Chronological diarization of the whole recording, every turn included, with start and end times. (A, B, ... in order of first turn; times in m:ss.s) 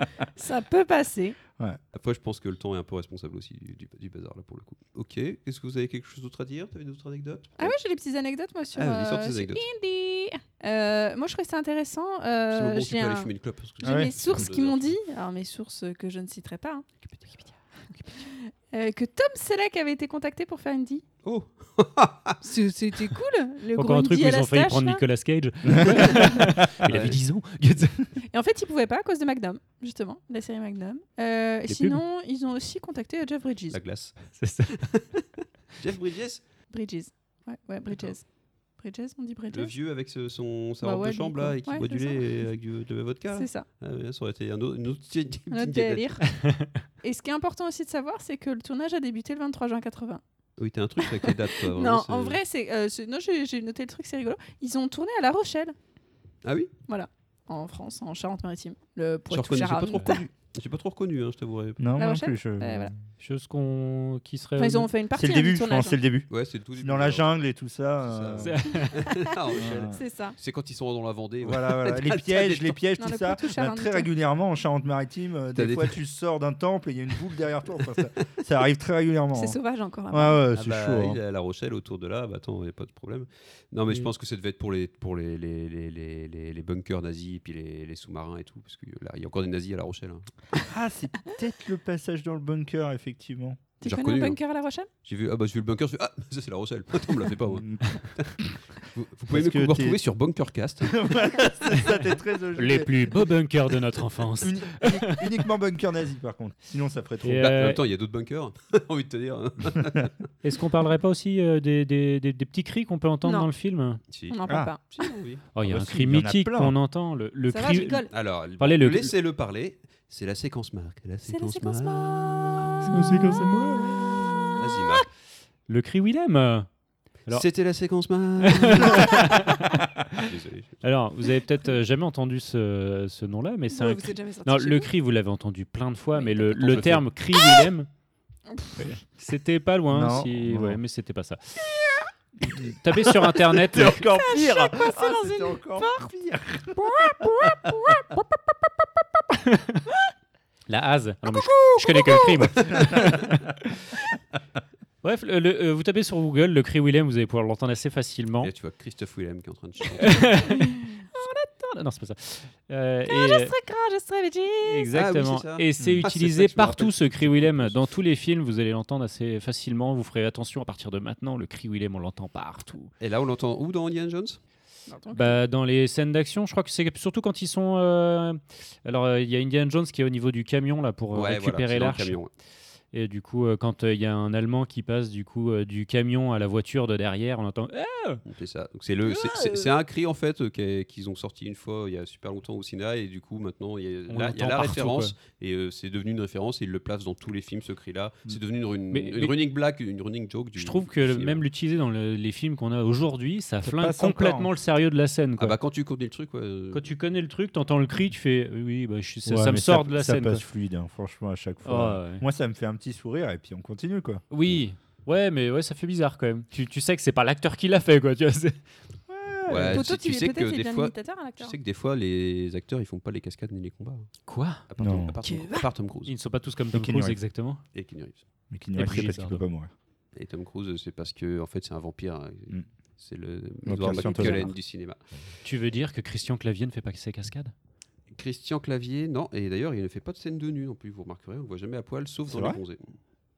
0:00.4-0:01.4 A
0:01.9-0:07.8 B
0:07.6-0:13.3 A
0:08.8-0:09.6 B
0:12.5-0:15.0 B
0:13.8-0:16.8 A
0:13.8-0:14.4 C
0:18.2-0:21.0 A
0:21.2-0:22.4 B
0:22.4-0:25.0 A
0:23.7-0:28.1 D
0:26.8-0:27.2 B
0:28.3-0:33.8 A
0:31.7-0:32.0 D
0:33.7-0:35.0 B
0:34.3-0:34.8 D
0:35.8-0:36.4 B
0:36.7-0:38.2 A
0:38.8-0:39.7 A
0:39.5-0:46.1 B
0:40.8-0:42.5 A
0:43.3-0:43.6 A
0:45.5-0:46.2 A
0:46.4-0:46.8 D
0:47.0-0:50.2 A
0:50.6-0:52.4 B
0:51.0-0:55.7 A
0:56.4-0:56.7 B
0:56.9-1:00.1 A
0:59.3-1:01.9 B
1:01.8-1:03.0 C
1:02.0-1:02.9 A
1:03.2-1:04.9 D
1:04.6-1:06.0 A
1:05.1-1:08.6 C
1:06.3-1:07.3 B
1:08.0-1:12.8 B
1:08.4-1:09.1 D
1:09.2-1:10.3 A
1:09.6-1:09.9 C
1:11.4-1:19.6 C
1:13.0-1:14.1 A
1:15.5-1:16.0 B
1:19.3-1:20.4 A
1:20.1-1:21.2 C
1:20.5-1:30.6 B
1:30.6-1:33.6 C
1:33.8-1:34.4 B
1:33.8-1:34.9 A
1:35.0-1:41.1 B
1:37.4-1:38.0 C
1:39.3-1:40.0 C
1:40.9-1:43.1 C
1:42.6-1:45.3 D
1:44.4-1:47.8 C
1:47.2-1:47.8 D
1:47.4-1:50.2 B
1:50.4-1:54.0 D
1:53.2-1:53.5 A
1:54.1-1:55.4 B
1:54.3-1:55.1 A
1:55.5-1:59.1 D
1:55.6-1:56.8 C
1:57.5-1:58.1 A
1:58.1-2:02.7 B
2:01.3-2:02.7 A
2:02.8-2:05.0 D
2:04.6-2:05.0 B
2:05.7-2:06.7 D
2:07.3-2:09.4 B
2:08.4-2:17.9 D
2:10.2-2:10.9 B
2:13.7-2:14.9 A
2:16.3-2:17.1 B
2:18.5-2:19.0 A
2:19.0-2:21.6 D
2:19.9-2:20.8 C
2:21.8-2:28.1 C
2:22.6-2:24.1 D
2:24.0-2:26.1 A
2:26.8-2:28.1 A
2:29.4-2:29.8 D
2:30.7-2:33.4 D
2:32.6-2:33.0 B
2:35.0-2:38.5 D
2:38.4-2:40.4 B
2:39.9-2:43.5 D
2:40.5-2:41.5 A
2:43.0-2:44.9 A
2:44.6-2:52.9 D
2:44.9-2:47.9 B
2:45.8-2:46.0 C
2:53.0-2:54.4 B
2:54.9-2:55.4 A
2:55.1-3:02.2 D
3:01.1-3:02.3 B
3:02.9-3:08.2 D
3:08.2-3:21.4 B
3:09.1-3:09.6 D
3:14.1-3:15.1 D
3:18.9-3:19.3 D
3:20.6-3:25.6 D
3:23.6-3:24.5 C
3:25.4-3:26.9 B
3:26.7-3:30.4 D
3:29.2-3:34.2 C
3:31.6-3:32.2 D
3:34.3-3:38.6 D
3:39.1-3:39.8 C
3:39.5-3:46.1 B
3:39.7-3:41.6 A
3:44.3-3:44.6 D
3:44.8-3:45.1 C
3:45.2-3:45.7 A
3:46.1-3:47.6 D
3:46.7-3:47.2 C
3:47.7-3:48.2 B
3:48.5-3:49.7 C
3:48.8-3:49.4 D
3:50.1-3:55.3 B
3:53.6-3:54.4 C
3:53.9-3:54.5 D
3:55.4-3:57.5 D
3:58.1-4:02.8 B
4:02.3-4:02.6 C